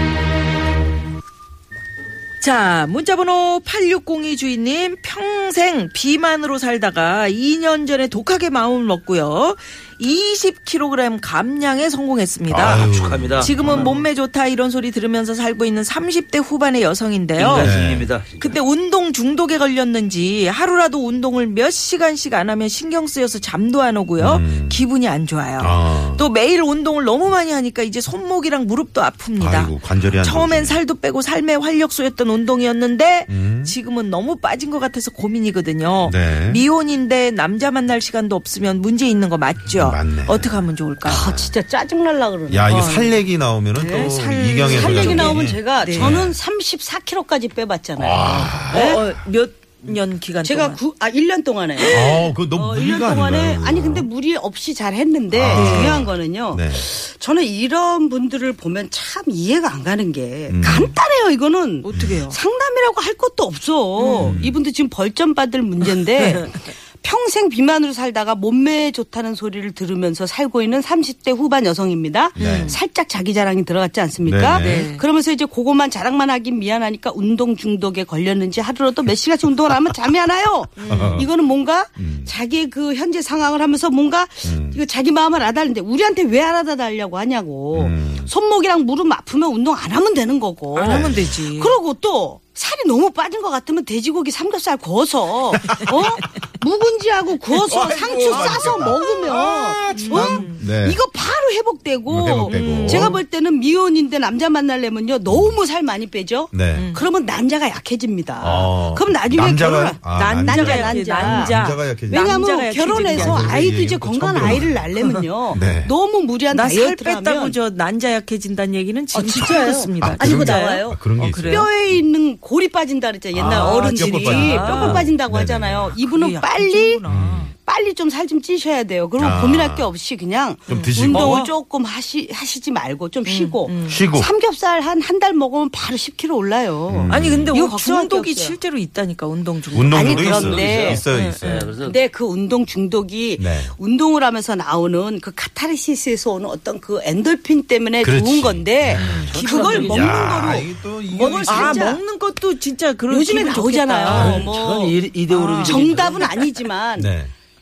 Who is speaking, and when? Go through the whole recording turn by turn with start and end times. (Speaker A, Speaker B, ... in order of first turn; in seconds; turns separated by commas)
Speaker A: 2.4-17.7, Speaker B: 12.5-13.9, Speaker C: 12.7-14.0, Speaker C: 17.4-18.6, Speaker B: 17.5-18.1, Speaker A: 18.4-41.3, Speaker B: 24.2-24.9, Speaker B: 25.6-26.3, Speaker B: 29.4-30.8, Speaker B: 33.3-33.8, Speaker B: 36.0-36.6, Speaker B: 39.6-41.5, Speaker D: 41.0-43.1, Speaker B: 42.5-46.4, Speaker A: 42.7-43.1, Speaker D: 43.7-49.0, Speaker A: 44.0-46.2, Speaker B: 48.0-49.2, Speaker A: 48.6-50.8, Speaker D: 50.4-111.5, Speaker B: 51.9-54.1, Speaker B: 55.3-56.9, Speaker A: 55.5-56.1, Speaker B: 60.5-60.9, Speaker A: 61.8-62.4, Speaker B: 61.9-62.2, Speaker A: 64.0-64.4, Speaker B: 64.2-64.6, Speaker A: 66.1-66.5, Speaker B: 72.3-72.8, Speaker A: 72.4-72.8, Speaker B: 74.2-74.9, Speaker A: 74.6-75.0, Speaker A: 80.8-81.2, Speaker B: 80.8-81.3, Speaker B: 82.0-82.3, Speaker B: 84.4-84.8, Speaker B: 87.7-88.3, Speaker A: 90.7-91.8, Speaker B: 90.8-91.3, Speaker B: 95.6-96.1, Speaker B: 97.5-101.0, Speaker A: 98.3-98.8, Speaker A: 99.9-100.6, Speaker B: 102.1-103.2, Speaker A: 102.4-103.2, Speaker B: 105.3-105.6, Speaker B: 106.5-106.9, Speaker A: 106.7-107.0, Speaker B: 108.4-115.0, Speaker A: 110.1-113.6, Speaker D: 112.1-117.6, Speaker A: 114.5-115.2, Speaker B: 115.5-115.9, Speaker A: 116.5-121.7, Speaker D: 119.1-127.0, Speaker B: 120.0-121.7, Speaker B: 123.3-126.0, Speaker A: 123.4-125.1, Speaker A: 125.9-127.5, Speaker B: 127.1-127.5, Speaker D: 127.6-138.6, Speaker B: 129.2-129.9, Speaker B: 130.7-131.5, Speaker A: 130.7-131.5, Speaker A: 133.3-134.1, Speaker B: 133.9-134.3, Speaker B: 136.9-137.6, Speaker A: 137.1-140.5, Speaker B: 139.7-141.7, Speaker D: 139.9-141.0, Speaker C: 140.2-142.0, Speaker A: 141.1-141.7, Speaker D: 141.8-152.0, Speaker B: 143.4-143.7, Speaker B: 148.0-152.0, Speaker C: 149.0-150.3, Speaker A: 149.5-149.8, Speaker A: 151.4-154.4, Speaker D: 153.1-155.0, Speaker B: 154.1-154.5, Speaker C: 154.1-156.6, Speaker A: 155.3-155.8, Speaker D: 155.6-157.1, Speaker B: 157.0-157.3